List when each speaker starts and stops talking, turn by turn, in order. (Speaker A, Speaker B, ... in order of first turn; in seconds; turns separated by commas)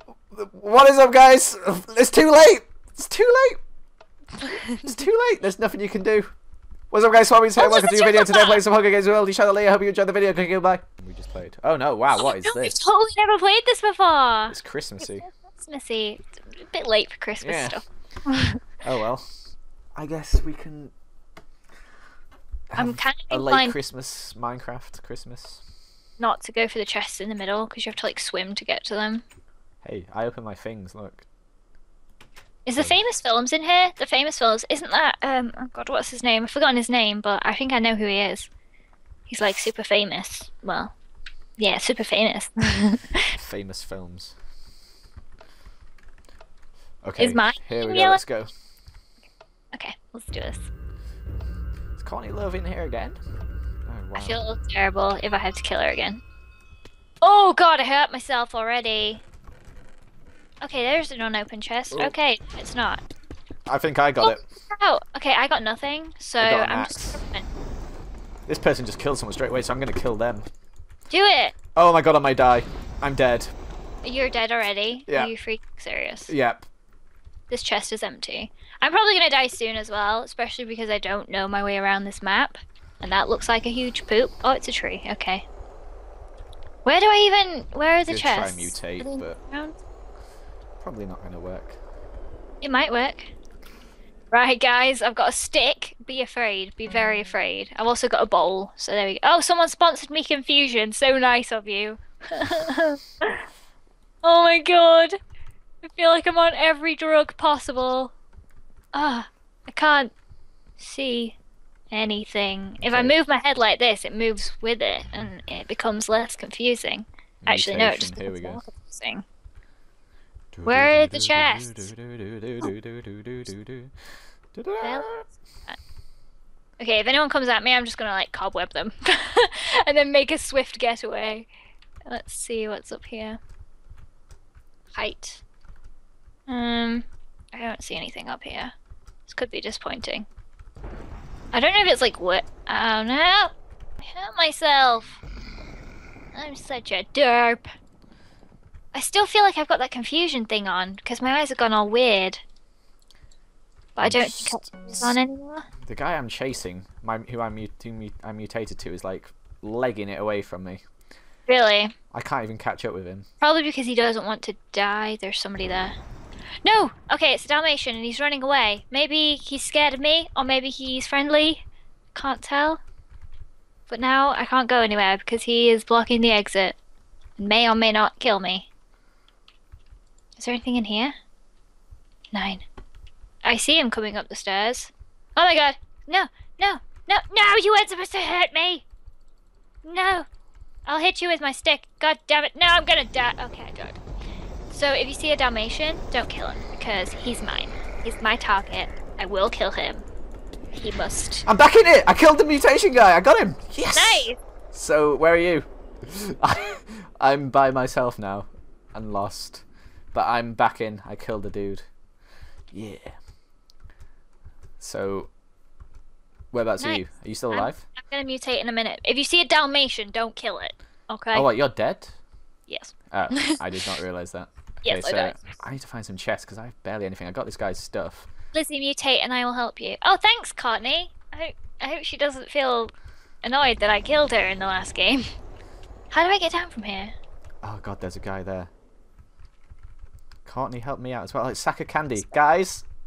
Speaker A: 0.3-3.6, Speaker B: 4.4-5.0, Speaker A: 4.8-6.3, Speaker A: 6.9-12.8, Speaker B: 7.6-8.6, Speaker B: 12.1-18.6, Speaker A: 14.5-15.3, Speaker A: 17.4-17.8, Speaker A: 18.8-19.3, Speaker A: 20.0-20.9, Speaker A: 22.7-25.6, Speaker B: 22.8-23.8, Speaker B: 26.2-29.2, Speaker A: 29.8-31.3, Speaker B: 32.7-38.5, Speaker B: 39.3-40.9, Speaker B: 41.6-43.3, Speaker A: 43.3-44.4, Speaker A: 47.0-48.5, Speaker B: 47.2-48.2, Speaker B: 49.7-50.7, Speaker A: 52.0-53.2, Speaker A: 53.9-54.4, Speaker B: 54.1-56.2, Speaker B: 57.2-59.2, Speaker B: 60.6-63.0, Speaker A: 63.7-64.4, Speaker B: 64.2-67.5, Speaker A: 66.4-67.2, Speaker A: 68.5-70.5, Speaker B: 71.1-71.5, Speaker A: 71.8-73.5, Speaker B: 74.0-76.3, Speaker A: 76.3-76.7, Speaker B: 77.5-85.5, Speaker B: 86.8-89.8, Speaker A: 88.1-89.4, Speaker A: 90.8-91.8, Speaker B: 92.6-93.3, Speaker B: 94.3-103.5, Speaker B: 104.2-105.2, Speaker B: 105.8-108.1, Speaker B: 108.9-110.1, Speaker B: 110.8-111.4, Speaker B: 111.9-119.2, Speaker A: 112.8-113.1, Speaker A: 117.4-118.6, Speaker A: 120.5-123.9, Speaker B: 120.7-121.9, Speaker A: 124.5-125.3, Speaker B: 124.8-125.8, Speaker B: 126.8-131.5, Speaker B: 132.1-133.4, Speaker B: 134.9-135.4, Speaker B: 136.5-138.7, Speaker B: 139.3-140.3, Speaker B: 141.5-145.2, Speaker B: 146.3-147.7, Speaker B: 148.9-152.4, Speaker B: 154.0-155.7, Speaker A: 154.0-155.2, Speaker A: 155.8-160.8, Speaker B: 161.5-161.9, Speaker A: 162.1-163.2, Speaker B: 163.4-166.0, Speaker B: 166.6-171.6, Speaker B: 172.2-172.8, Speaker B: 173.9-176.8, Speaker B: 177.4-178.7, Speaker B: 180.4-181.2, Speaker B: 182.3-182.7, Speaker B: 183.4-188.8, Speaker B: 189.8-190.3, Speaker B: 190.8-194.0, Speaker B: 194.7-200.1, Speaker B: 200.8-201.5, Speaker A: 201.4-211.9, Speaker B: 203.9-204.4, Speaker A: 212.7-213.2, Speaker A: 214.8-215.3, Speaker A: 216.5-217.8, Speaker B: 216.8-221.5, Speaker A: 221.3-222.2, Speaker B: 222.7-223.6, Speaker A: 223.1-228.3, Speaker B: 224.8-225.4, Speaker B: 228.5-235.2, Speaker B: 236.1-237.2, Speaker A: 237.6-238.7, Speaker A: 240.4-242.8